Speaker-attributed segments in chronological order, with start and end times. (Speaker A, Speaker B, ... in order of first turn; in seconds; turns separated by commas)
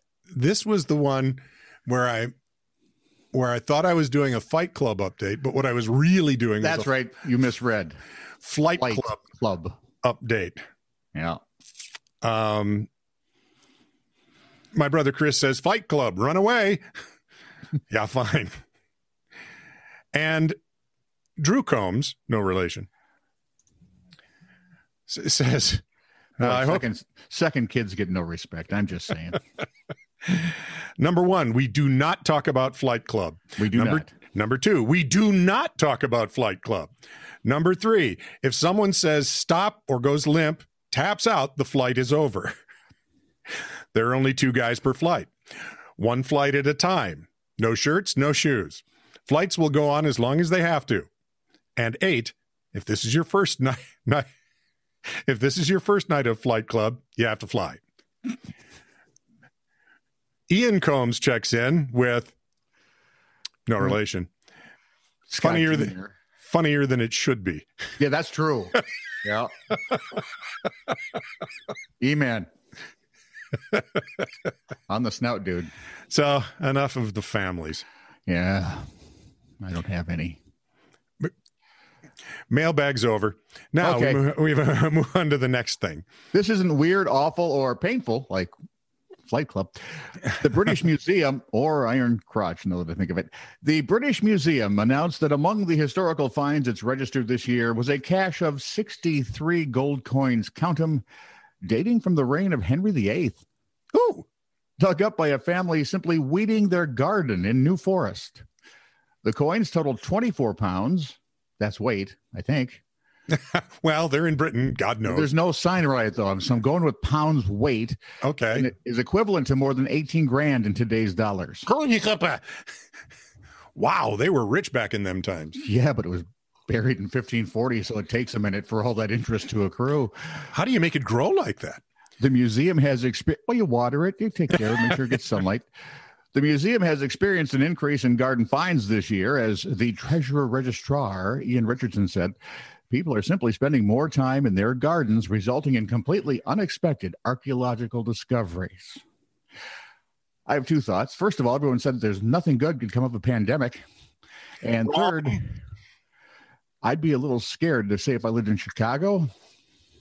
Speaker A: 0.3-2.3, Speaker A: 3.3-6.9, Speaker B: 6.6-8.0, Speaker A: 8.4-9.2, Speaker B: 8.8-9.8, Speaker A: 10.0-10.6, Speaker B: 11.1-11.4, Speaker A: 12.2-12.9, Speaker A: 14.7-16.8, Speaker A: 17.9-18.5, Speaker A: 20.1-20.6, Speaker A: 21.4-22.9, Speaker A: 25.1-25.8, Speaker A: 26.4-26.9, Speaker B: 26.4-29.4, Speaker A: 30.2-36.9, Speaker B: 33.6-34.1, Speaker A: 37.4-42.5, Speaker A: 43.9-45.3, Speaker A: 46.0-51.1, Speaker A: 51.8-54.2, Speaker A: 55.2-57.8, Speaker A: 60.5-62.3, Speaker A: 63.7-64.3, Speaker B: 65.3-66.1, Speaker A: 65.4-67.7, Speaker B: 68.0-69.5, Speaker B: 72.0-72.5, Speaker B: 74.9-75.7, Speaker A: 76.1-77.8, Speaker B: 78.3-78.9, Speaker B: 79.6-80.4, Speaker A: 82.5-86.0, Speaker B: 83.8-84.2, Speaker B: 86.3-88.5, Speaker B: 89.3-101.0, Speaker B: 101.6-103.4, Speaker A: 103.9-104.2, Speaker B: 104.8-108.4, Speaker B: 109.2-112.8, Speaker A: 113.3-115.3, Speaker B: 115.0-121.7, Speaker A: 118.2-118.7, Speaker A: 121.7-122.4, Speaker A: 123.7-125.6, Speaker B: 125.6-130.1, Speaker A: 130.5-131.8, Speaker B: 132.2-135.7, Speaker B: 136.3-142.3, Speaker B: 142.9-149.0, Speaker B: 150.5-153.8, Speaker B: 154.6-155.5, Speaker B: 156.8-159.3